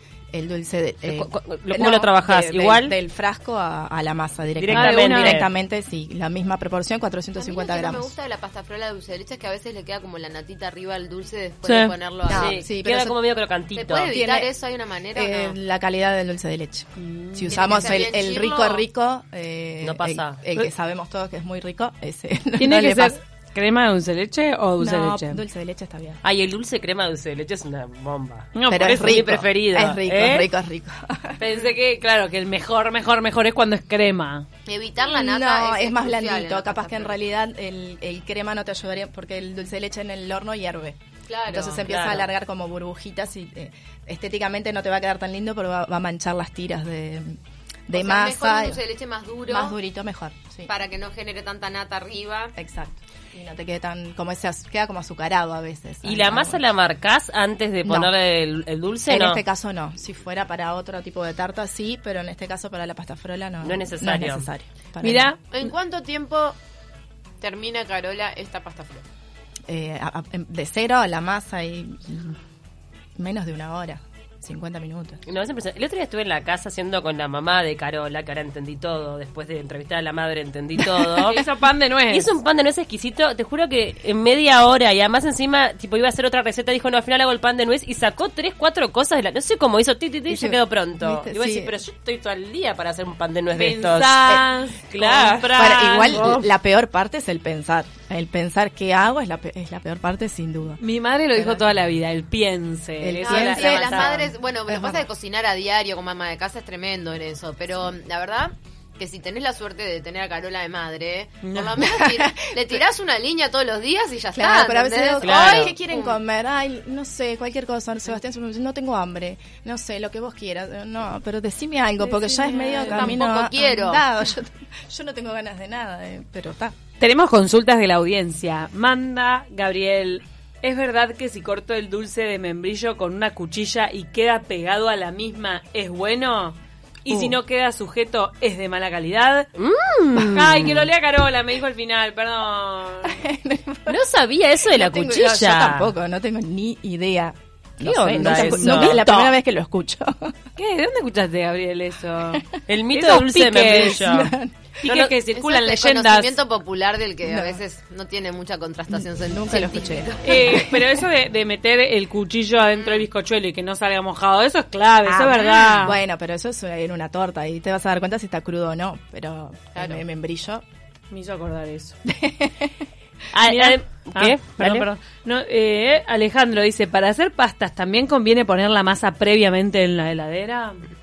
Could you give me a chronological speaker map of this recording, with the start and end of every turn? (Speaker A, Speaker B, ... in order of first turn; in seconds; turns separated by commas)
Speaker A: 0.3-8.1, Speaker B: 1.0-2.9, Speaker B: 4.6-5.5, Speaker C: 4.7-5.4, Speaker D: 7.4-12.6, Speaker C: 11.6-11.9, Speaker A: 12.3-13.2, Speaker B: 12.3-14.2, Speaker D: 13.7-15.6, Speaker A: 14.1-14.5, Speaker A: 15.1-23.1, Speaker C: 17.0-17.6, Speaker D: 17.5-18.8, Speaker B: 19.8-20.4, Speaker C: 22.6-25.4, Speaker A: 24.8-26.2, Speaker B: 26.2-30.5, Speaker C: 28.5-29.3, Speaker A: 28.7-31.4, Speaker C: 31.4-34.5, Speaker D: 34.6-37.1, Speaker A: 35.0-48.8, Speaker D: 41.3-41.9, Speaker B: 41.8-42.3, Speaker D: 47.9-49.8, Speaker A: 49.5-50.7, Speaker D: 50.7-52.5, Speaker A: 52.6-56.6, Speaker B: 56.0-59.4, Speaker A: 57.8-58.1, Speaker A: 59.1-65.3, Speaker B: 63.6-64.5, Speaker C: 65.0-65.7, Speaker D: 65.5-66.5, Speaker D: 67.4-69.0, Speaker A: 69.7-72.4, Speaker A: 73.2-75.2, Speaker B: 75.2-81.4, Speaker C: 81.2-82.3, Speaker B: 82.1-96.4, Speaker A: 90.3-91.7, Speaker C: 93.5-96.3, Speaker A: 95.5-100.8, Speaker C: 100.8-104.3, Speaker A: 101.3-101.7, Speaker A: 103.0-105.1, Speaker D: 103.2-116.2, Speaker C: 111.4-111.8, Speaker A: 112.0-112.3, Speaker A: 114.3-126.7, Speaker B: 115.2-115.7, Speaker C: 122.0-123.2, Speaker D: 122.8-124.0, Speaker C: 127.0-139.5, Speaker A: 137.1-137.4, Speaker B: 139.5-140.9, Speaker C: 140.2-143.2, Speaker A: 143.0-144.0, Speaker B: 143.9-145.9, Speaker A: 144.7-150.3, Speaker C: 147.8-149.3, Speaker B: 148.1-149.0, Speaker C: 150.6-154.0, Speaker A: 152.3-152.6, Speaker B: 152.7-154.3, Speaker A: 153.7-154.8, Speaker C: 154.8-156.4, Speaker D: 155.3-160.3, Speaker A: 157.2-157.6, Speaker A: 158.9-160.8, Speaker C: 160.2-166.0, Speaker D: 162.7-163.0, Speaker A: 165.0-170.6, Speaker D: 169.7-170.0, Speaker C: 171.1-171.9, Speaker A: 172.0-172.7, Speaker B: 173.3-174.9, Speaker C: 173.4-180.8